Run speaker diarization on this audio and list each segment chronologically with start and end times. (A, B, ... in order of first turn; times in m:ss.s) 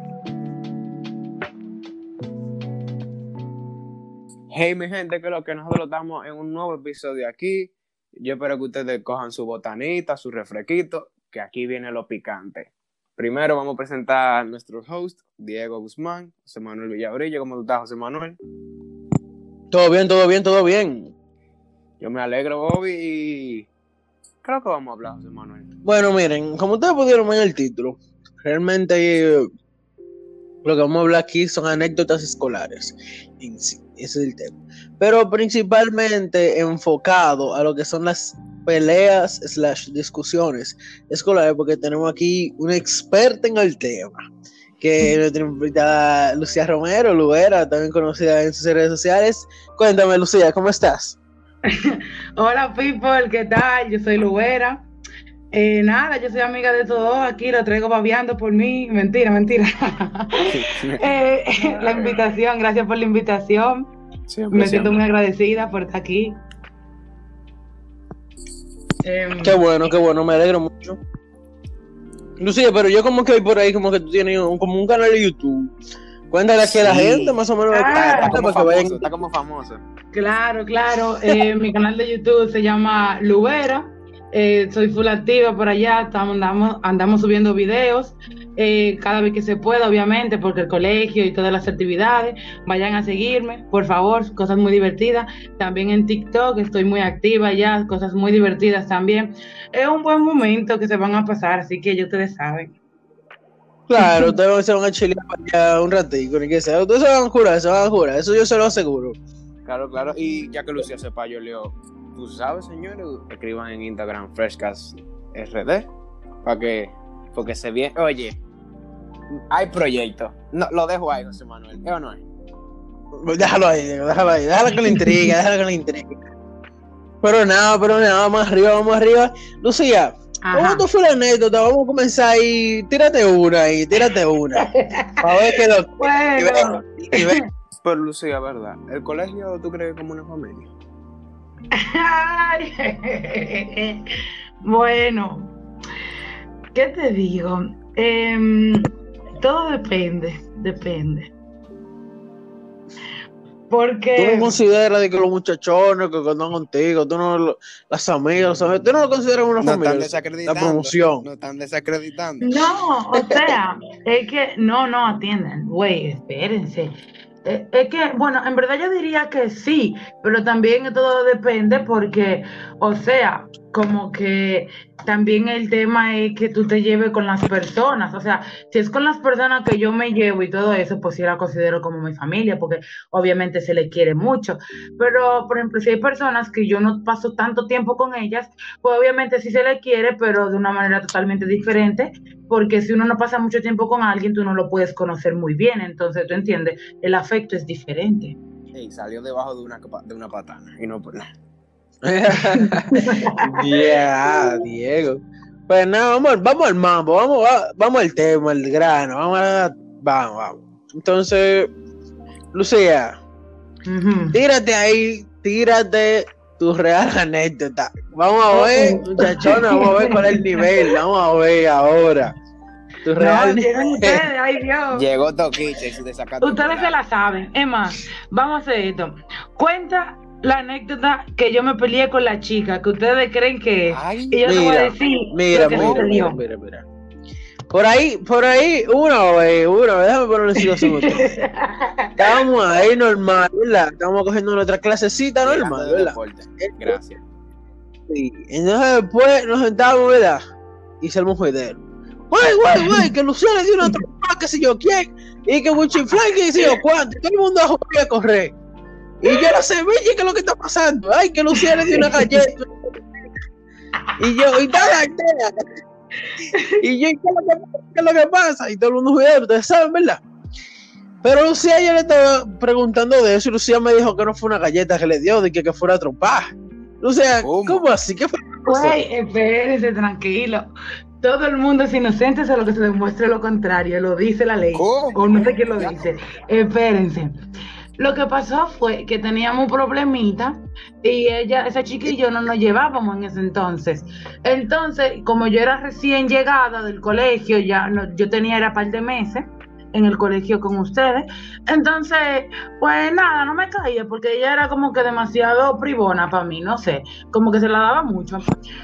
0:04.5-0:18.4 A
0:19.7-0:21.1 B
0:22.0-0:23.7 A
0:24.4-0:25.7 A
0:25.8-0:29.5 B
0:30.6-0:44.2 B
0:44.8-0:51.2 B
0:51.7-0:54.8 C
0:55.5-1:00.5 C
1:00.5-1:01.0 A
1:01.0-1:03.9 C
1:01.6-1:02.4 A
1:04.3-1:05.0 A
1:04.5-1:06.4 C
1:09.0-1:09.6 C
1:09.4-1:11.0 B
1:12.4-1:15.7 B
1:16.3-1:19.1 B
1:16.7-1:19.8 A
1:17.7-1:18.4 C
1:20.1-1:42.8 C
1:43.9-1:49.2 B
1:44.0-1:44.3 C
1:49.6-1:55.9 A
1:56.4-1:58.4 A
1:59.5-2:02.2 A
2:03.2-2:06.2 B
2:04.9-2:05.3 C
2:07.2-2:14.7 B
2:10.4-2:10.8 C
2:14.6-2:15.2 C
2:15.2-2:17.4 B
2:16.0-2:17.4 C
2:17.8-2:20.7 A
2:21.8-2:24.0 C
2:24.6-2:25.5 C
2:26.7-2:31.3 C
2:33.7-2:34.6 C
2:34.2-2:41.3 B
2:39.6-2:42.5 A
2:42.4-2:46.9 C
2:47.4-3:18.4 C
3:18.7-3:21.2 A
3:22.0-3:31.7 B
3:22.6-3:23.4 C
3:32.5-3:33.1 B
3:33.9-3:34.4 C
3:34.3-3:42.3 B
3:38.5-3:40.9 C
3:43.0-3:43.7 B
3:43.2-3:45.0 C
3:44.9-3:47.0 A
3:46.4-3:56.4 C
3:53.9-3:54.4 A
3:54.4-3:56.8 B
3:55.6-3:56.0 A
3:57.7-4:01.4 B
4:00.8-4:01.9 C
4:02.2-4:06.9 B
4:05.4-4:07.2 A
4:08.1-4:10.4 B
4:11.0-4:11.8 B
4:12.3-4:18.5 B
4:12.8-4:13.1 C
4:19.2-4:22.7 B
4:21.6-4:22.4 C
4:24.2-4:25.5 B
4:26.2-4:26.8 C
4:26.8-4:30.2 B
4:31.2-4:39.0 B
4:37.4-4:37.8 A
4:38.6-4:40.7 C
4:41.2-4:47.3 C
4:44.7-4:46.2 A
4:48.0-5:08.5 C